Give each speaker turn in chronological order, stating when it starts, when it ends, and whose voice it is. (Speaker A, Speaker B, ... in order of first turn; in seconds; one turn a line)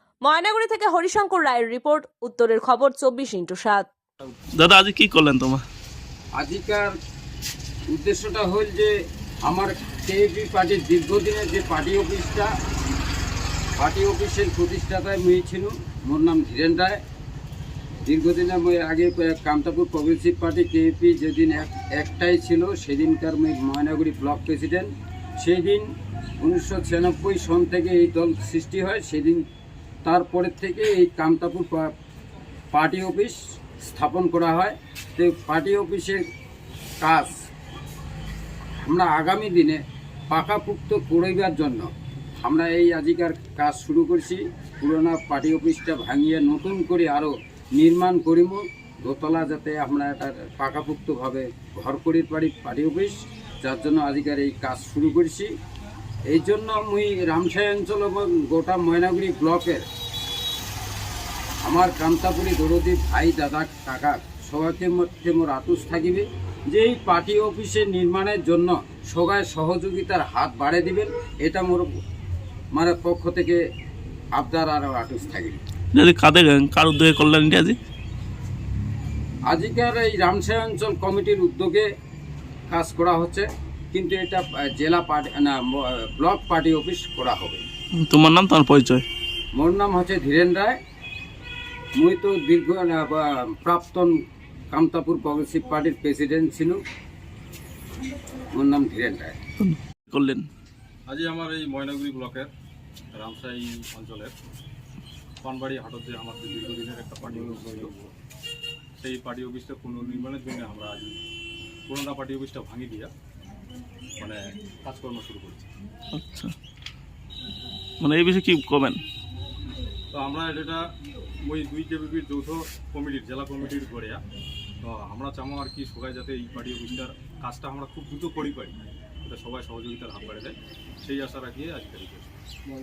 Speaker A: 0.2-3.9
Speaker B: 4.6-5.6
Speaker C: 6.4-6.9
Speaker C: 7.9-8.9
Speaker C: 9.4-12.5
Speaker C: 13.8-17.0
Speaker C: 18.1-25.8
Speaker C: 26.4-29.4
Speaker C: 30.0-31.9
Speaker C: 32.7-36.2
Speaker C: 37.0-37.4
Speaker C: 38.8-39.8
Speaker C: 40.3-41.9
Speaker C: 42.4-55.5
Speaker C: 56.3-59.8
Speaker C: 61.6-71.8
Speaker C: 72.7-73.6
Speaker C: 74.3-75.6
Speaker B: 75.9-77.8
Speaker C: 79.5-81.9
Speaker C: 82.7-87.6
Speaker B: 88.0-89.0
Speaker C: 89.5-90.8
Speaker C: 92.0-94.1
Speaker C: 94.7-96.8
Speaker C: 98.5-99.4
Speaker B: 99.6-100.4
Speaker D: 101.1-102.5
Speaker D: 103.1-104.3
Speaker D: 105.4-108.1
Speaker D: 109.0-111.2
Speaker D: 111.9-113.1
Speaker D: 114.2-115.7
Speaker B: 116.1-116.5
Speaker B: 118.0-119.0
Speaker D: 120.1-120.8
Speaker D: 121.4-124.2
Speaker D: 124.8-132.4